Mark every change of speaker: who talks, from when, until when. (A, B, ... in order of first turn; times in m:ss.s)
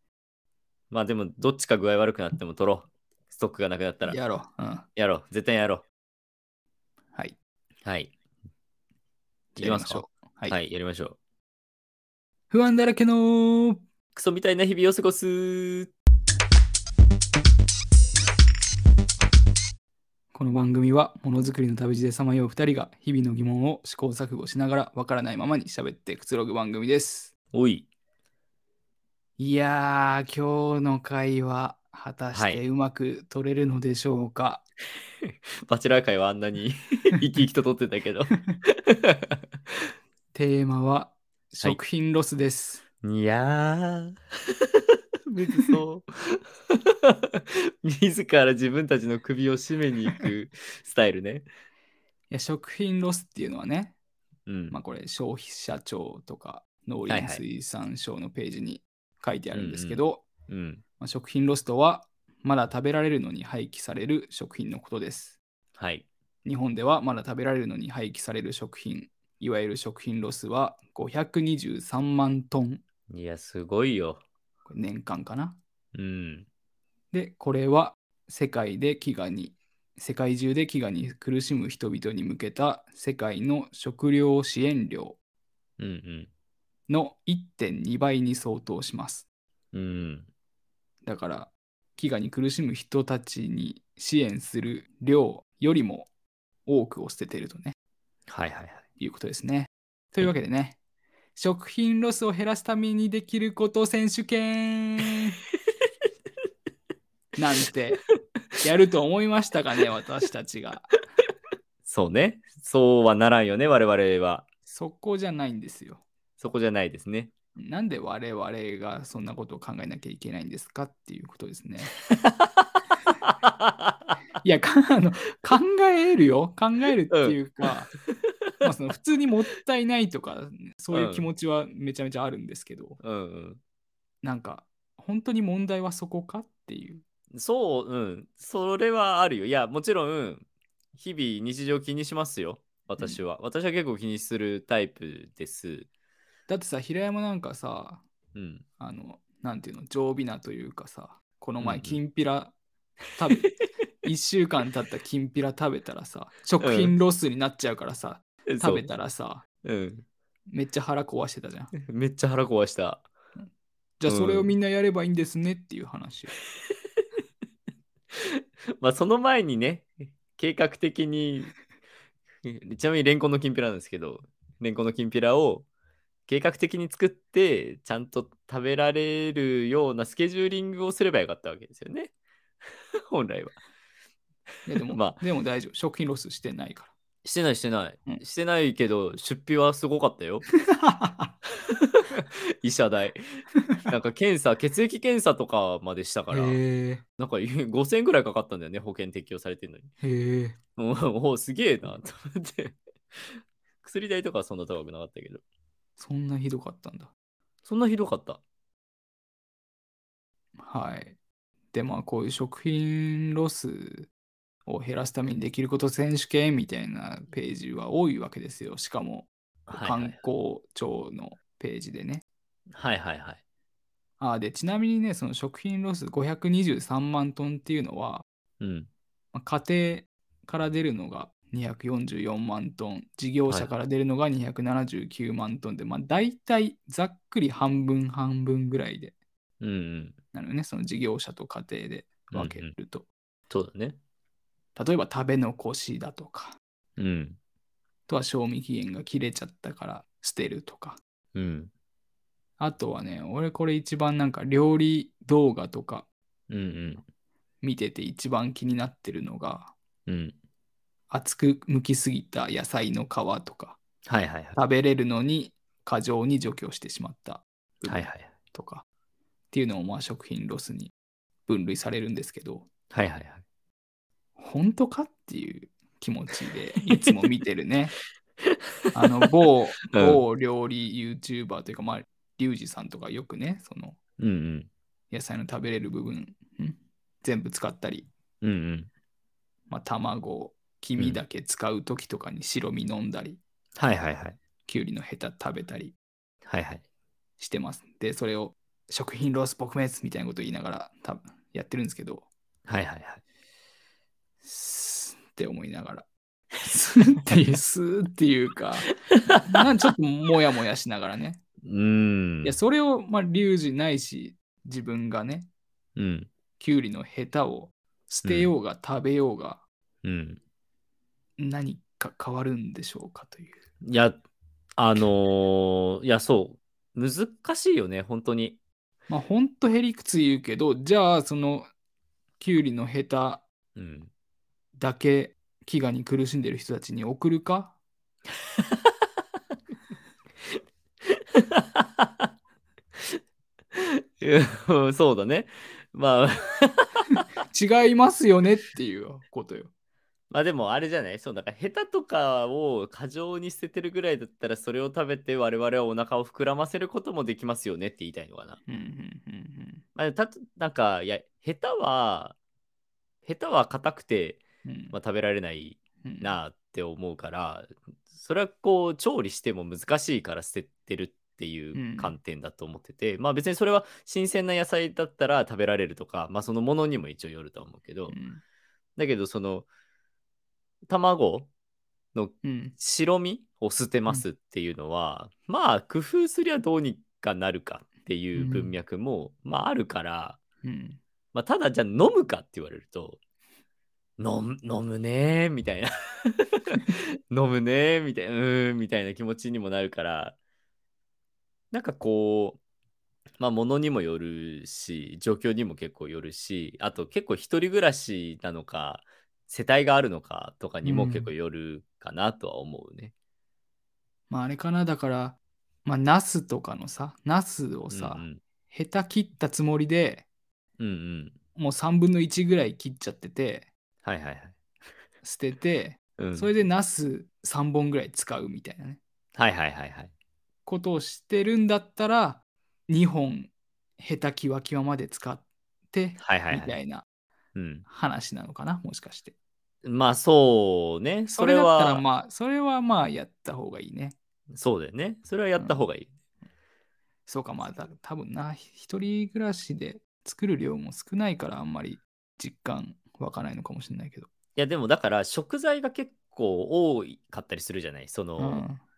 0:00.9-0:04.2 A
0:04.1-0:04.9 B
0:05.0-0:05.8 A
0:07.8-0:08.1 A
0:09.6-0:11.2 A
0:09.6-0:10.6 B
0:12.5-0:13.8 B
0:14.2-0:15.9 A
0:20.3-0:27.3 B
0:27.5-0:27.9 A
0:29.4-0:34.6 B
0:32.3-0:32.6 A
0:35.2-0:39.4 A
0:40.3-0:42.8 B
0:43.0-0:51.5 A
0:52.3-0:54.0 B
0:54.5-0:54.8 A
0:54.7-1:00.3 B
0:57.1-0:57.4 A
0:59.5-1:00.8 A
1:01.0-1:05.4 B
1:05.8-1:06.1 A
1:06.4-1:12.8 B
1:13.1-1:14.2 A
1:14.7-1:15.6 B
1:15.9-1:16.5 A
1:17.1-1:25.2 B
1:25.8-1:26.3 A
1:26.9-1:29.2 B
1:29.7-1:30.3 A
1:31.0-1:36.1 B
1:36.7-1:37.8 B
1:38.3-1:38.8 A
1:39.0-1:40.8 B
1:41.4-1:45.4 B
1:47.4-1:48.0 B
1:48.6-1:50.9 B
1:51.9-1:54.5 A
1:54.7-1:56.0 B
1:56.4-1:57.3 A
1:57.6-2:01.9 B
2:02.1-2:04.1 A
2:04.4-2:07.9 B
2:07.1-2:07.4 A
2:08.1-2:08.5 A
2:08.6-2:13.0 B
2:10.9-2:11.3 A
2:13.0-2:13.6 A
2:14.2-2:17.0 B
2:17.3-2:20.5 A
2:21.0-2:25.9 A
2:26.5-2:28.0 B
2:28.4-2:28.6 A
2:28.8-2:32.6 B
2:31.6-2:32.0 A
2:33.2-2:39.4 B
2:36.6-2:37.0 A
2:38.5-2:38.9 A
2:39.6-2:40.1 A
2:40.5-2:41.7 B
2:41.8-2:43.1 A
2:44.0-2:46.4 B
2:44.1-2:44.5 A
2:48.1-2:51.6 A
2:52.4-2:55.7 A
2:56.3-3:02.1 A
3:03.1-3:03.6 A
3:04.7-3:06.9 B
3:04.9-3:05.2 A
3:07.2-3:10.5 A
3:10.6-3:11.4 B
3:11.7-3:16.6 A
3:16.3-3:17.0 B
3:17.2-3:19.9 A
3:20.0-3:20.6 B
3:20.8-3:25.4 A
3:26.0-3:27.1 B
3:27.6-3:28.4 A
3:30.6-3:31.2 B
3:31.7-3:34.1 B
3:34.7-3:42.2 B
3:39.7-3:40.2 A
3:42.7-3:43.4 A
3:44.2-3:48.2 B
3:48.6-3:48.9 A
3:49.3-3:59.2 B
3:59.6-4:00.2 A
4:00.3-4:03.1 B
4:02.3-4:02.7 A
4:03.5-4:04.0 A
4:04.8-4:06.6 B
4:07.0-4:07.4 A
4:08.1-4:11.0 B
4:11.4-4:11.7 A
4:12.6-4:16.1 B
4:16.5-4:17.0 A
4:17.6-4:19.8 B
4:20.1-4:20.4 A
4:21.1-4:23.8 B
4:24.1-4:24.6 A
4:24.6-4:28.8 B
4:27.9-4:28.3 A
4:29.5-4:30.9 B
4:31.5-4:32.7 B
4:32.9-4:33.4 A
4:34.4-4:38.0 B
4:38.5-4:39.3 A
4:38.9-4:44.0 B
4:39.9-4:40.2 A
4:44.2-4:44.7 A
4:45.1-4:48.1 B
4:48.4-4:48.9 A
4:49.7-4:53.4 B
4:53.8-4:54.4 A
4:54.7-4:56.0 B
4:56.5-4:56.8 A
4:57.4-5:02.3 B
5:02.7-5:03.2 A
5:04.4-5:06.1 B
5:06.6-5:08.9 B
5:09.1-5:09.6 A
5:09.4-5:11.4 B
5:11.6-5:12.6 A
5:12.4-5:15.5 B
5:16.0-5:16.3 A
5:16.6-5:19.6 B
5:18.2-5:18.5 A
5:20.0-5:20.4 A
5:21.4-5:23.6 B
5:23.8-5:24.2 A
5:24.8-5:28.6 A
5:29.1-5:31.7 B
5:32.4-5:33.4 B
5:33.8-5:34.1 A
5:34.8-5:37.8 B
5:41.1-5:42.3 A
5:43.8-5:47.2 A
5:47.5-5:49.7 B
5:50.3-5:58.6 A
5:58.7-5:59.8 B
6:00.0-6:02.4 A
6:03.2-6:18.2 A
6:04.6-6:05.0 B
6:06.0-6:06.4 B
6:11.7-6:12.2 B
6:18.1-6:18.4 B
6:19.0-6:19.7 A
6:20.9-6:21.5 A
6:22.1-6:30.4 A
6:22.4-6:22.8 B
6:28.4-6:28.7 B
6:30.6-6:31.0 B
6:31.3-6:33.2 A
6:34.2-6:40.4 A
6:41.7-6:42.6 A
6:43.4-6:53.1 A
6:50.8-6:51.3 B
6:54.3-7:00.3 B
6:57.9-6:58.4 A
7:00.8-7:01.4 A
7:01.6-7:03.7 B
7:04.0-7:04.6 A
7:05.2-7:09.0 B
7:06.2-7:06.5 A
7:09.4-7:10.1 A
7:10.7-7:17.0 B
7:16.2-7:16.7 A
7:17.6-7:17.8 A
7:17.9-7:19.4 B
7:19.8-7:22.0 A
7:21.3-7:24.2 B
7:24.5-7:26.1 A
7:25.6-7:25.9 B
7:27.3-7:34.3 B
7:34.6-7:38.6 A
7:38.4-7:38.8 B